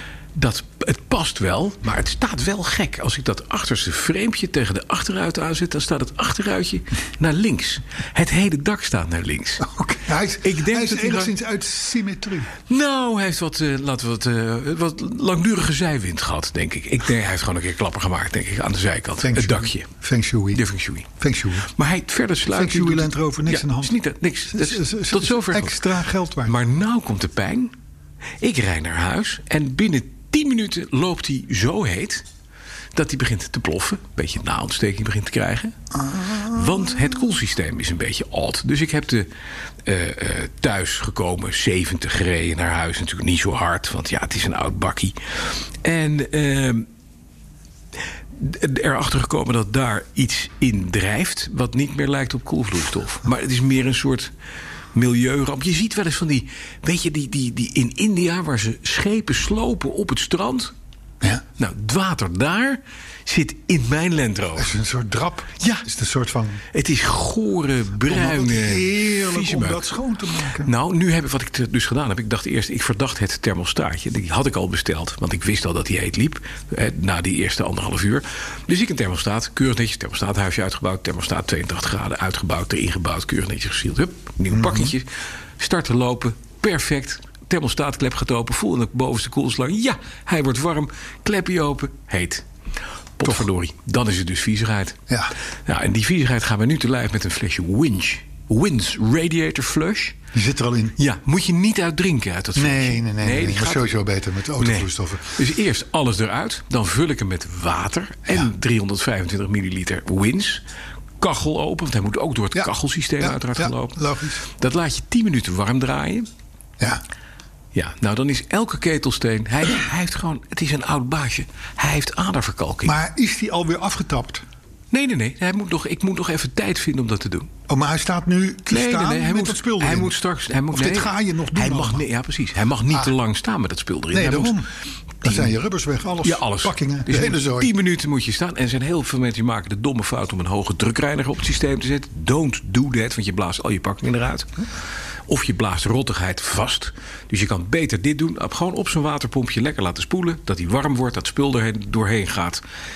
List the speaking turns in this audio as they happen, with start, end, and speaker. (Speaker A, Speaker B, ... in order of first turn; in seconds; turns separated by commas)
Speaker A: 0.3-9.6, Speaker B: 9.6-12.5, Speaker A: 10.4-11.3, Speaker A: 12.7-19.9, Speaker B: 19.2-20.6, Speaker A: 20.5-21.1, Speaker B: 21.2-21.7, Speaker A: 21.7-25.8, Speaker B: 22.5-24.0, Speaker B: 24.5-26.6, Speaker A: 26.4-27.7, Speaker A: 28.4-32.2, Speaker A: 32.9-35.7, Speaker B: 36.0-36.8, Speaker A: 36.4-39.3, Speaker A: 39.9-46.9, Speaker A: 48.4-54.3, Speaker A: 54.9-60.7, Speaker A: 61.6-64.7, Speaker B: 64.6-66.6, Speaker A: 66.7-69.9, Speaker B: 68.1-70.7, Speaker A: 70.6-92.4, Speaker B: 84.5-84.9, Speaker A: 93.2-95.0, Speaker A: 95.7-100.2, Speaker B: 100.3-101.0, Speaker A: 101.0-103.9, Speaker B: 102.6-105.4, Speaker A: 104.6-110.6, Speaker A: 111.2-116.3, Speaker B: 112.5-114.4, Speaker A: 117.7-123.0, Speaker B: 122.8-124.4, Speaker A: 124.9-127.5, Speaker B: 127.7-130.2, Speaker A: 128.7-134.6, Speaker B: 130.7-132.1, Speaker B: 134.1-134.7, Speaker B: 135.2-137.7, Speaker A: 135.2-135.5, Speaker A: 136.2-144.5, Speaker A: 145.3-152.6